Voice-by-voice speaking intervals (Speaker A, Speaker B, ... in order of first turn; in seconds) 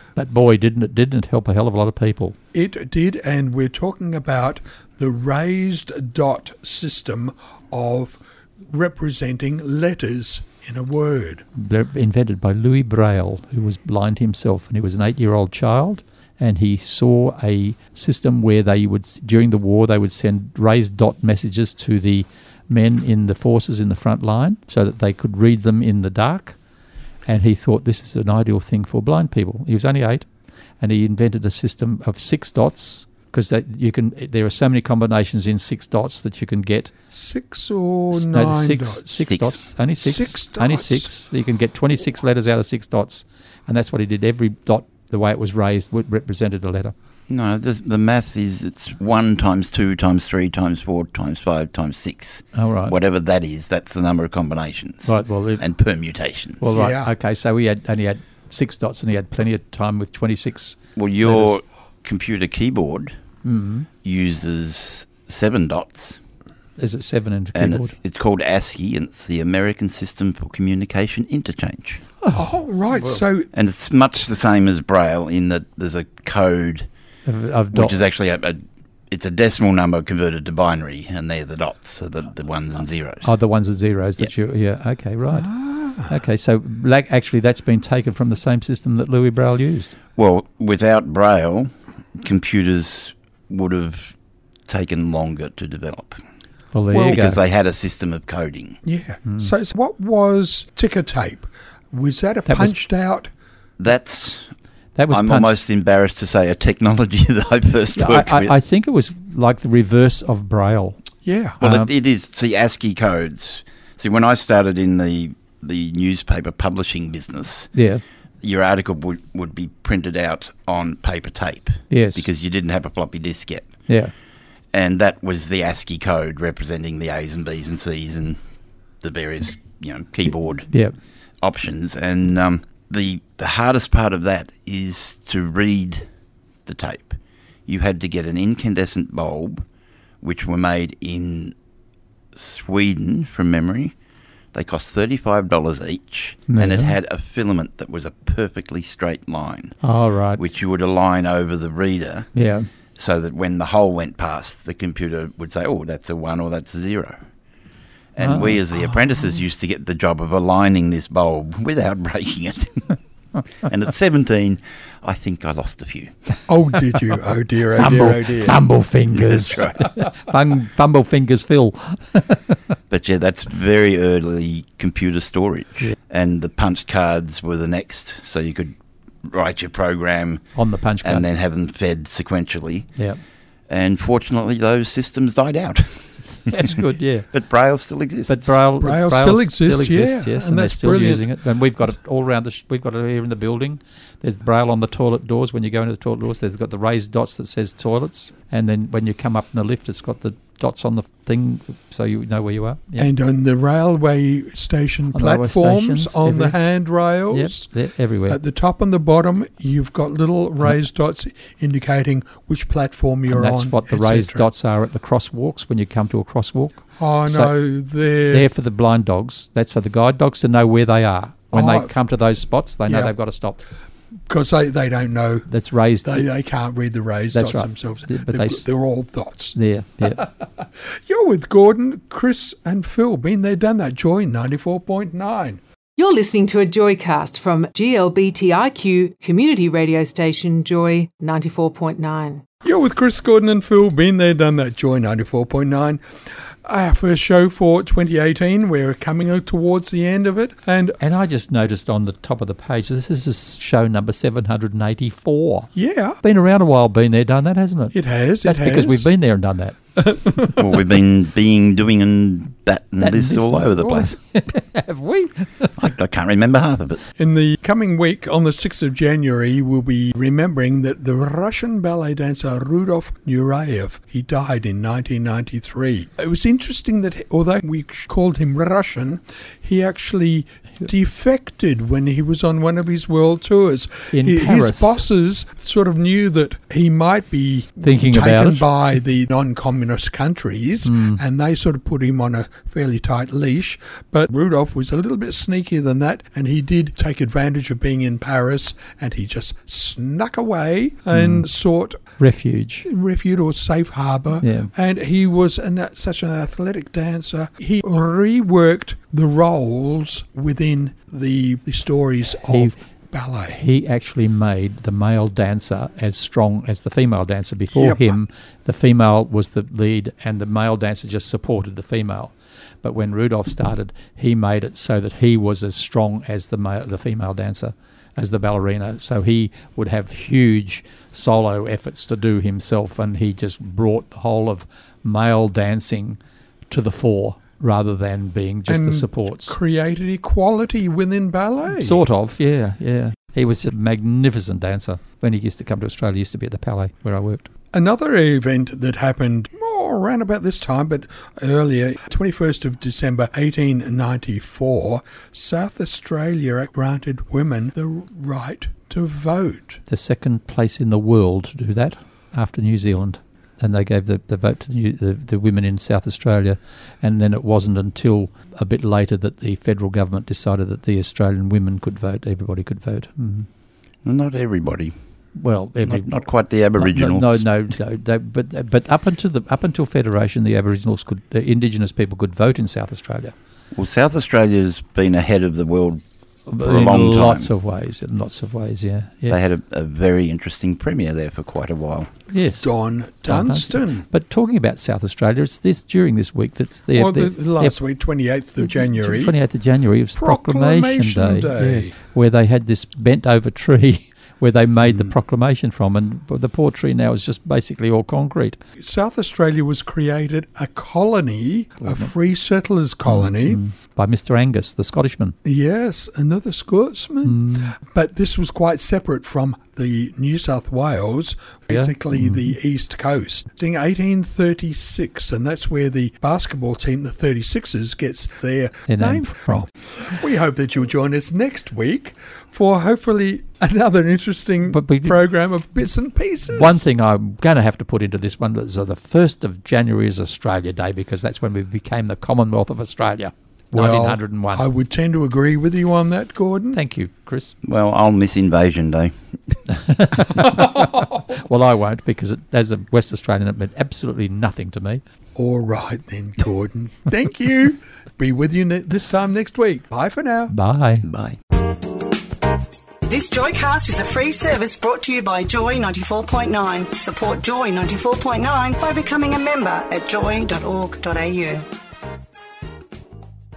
Speaker A: 0.2-2.4, 11.6-26.6, 27.3-30.3, 30.8-36.9, 38.1-46.9, 52.5-52.9, 55.0-55.6, 56.6-61.5, 63.4-63.9, 66.8-67.9, 72.2-73.2, 77.2-78.0, 83.2-85.5, 86.1-89.9, 96.7-97.4, 99.3-99.5, 102.5-102.8, 105.0-105.5, 108.0-111.0, 111.6-111.9, 117.7-118.0, 121.9-122.3, 123.9-124.1, 146.5-147.0, 149.8-150.4, 152.3-152.7, 158.2-158.6, 167.8-172.6, 180.6-181.3, 186.5-187.3, 188.3-203.1, 205.1-206.6, 207.3-208.4, 213.3-217.6, 218.3-223.6, 225.5-226.3, 227.3-228.6, 229.6-230.3, 251.0-255.7, 256.2-259.8, 263.0-265.9, 284.1-285.0, 287.8-288.7, 290.8-291.2, 301.1-301.5, 302.2-302.9, 304.4-304.7, 313.5-336.2, 336.7-339.6, 341.7-347.5, 359.9-373.5, 375.4-376.1, 376.8-383.4, 386.5-389.4, 392.3-397.8, 398.6-408.6, 411.8-412.1, 413.1-415.4, 417.2-417.8, 421.7-422.6, 428.9-429.6, 434.7-435.2, 436.5-444.6, 446.7-447.6, 449.7-455.0, 460.5-461.1
Speaker B: 2.5-11.4, 37.1-39.1, 40.0-41.1, 56.7-57.1, 72.3-73.5, 85.3-86.1, 98.8-103.3, 111.2-111.6, 166.5-168.6, 188.8-191.3, 203.0-207.7, 208.3-214.5, 217.0-218.5, 221.5-221.9, 222.9-223.1, 224.3-225.5, 226.0-235.6, 242.6-246.0, 246.6-251.0, 255.8-256.2, 257.9-259.1, 260.0-260.9, 267.2-302.0, 302.9-313.6, 317.7-318.2, 338.7-342.0, 347.7-359.8, 392.6-394.1, 396.9-399.4, 400.2-401.9, 404.9-405.1, 408.8-413.6, 415.4-436.9, 443.7-446.8, 450.4-451.1, 455.4-460.5
Speaker C: 39.2-39.7, 47.3-56.8, 61.0-63.2, 64.0-66.2, 67.5-72.0, 73.5-76.9, 77.7-83.3, 90.2-94.1, 94.7-96.2, 96.9-98.8, 103.8-104.5, 105.1-108.5, 111.6-117.7, 118.4-123.8, 124.7-128.4, 129.0-130.7, 131.4-136.1, 136.7-139.7, 140.2-141.6, 142.3-143.9, 144.5-149.8, 150.4-152.3, 153.0-157.2, 158.2-162.9, 163.7-166.2, 169.2-169.9, 172.9-180.5, 181.0-182.9, 183.7-186.5, 187.3-188.6, 260.6-264.2, 265.8-267.0, 374.1-374.9, 375.8-377.5, 383.7-386.0, 386.6-387.5, 389.3-392.1, 447.6-449.6, 461.1-461.4
Speaker D: 236.0-242.4
Speaker E: 463.1-471.7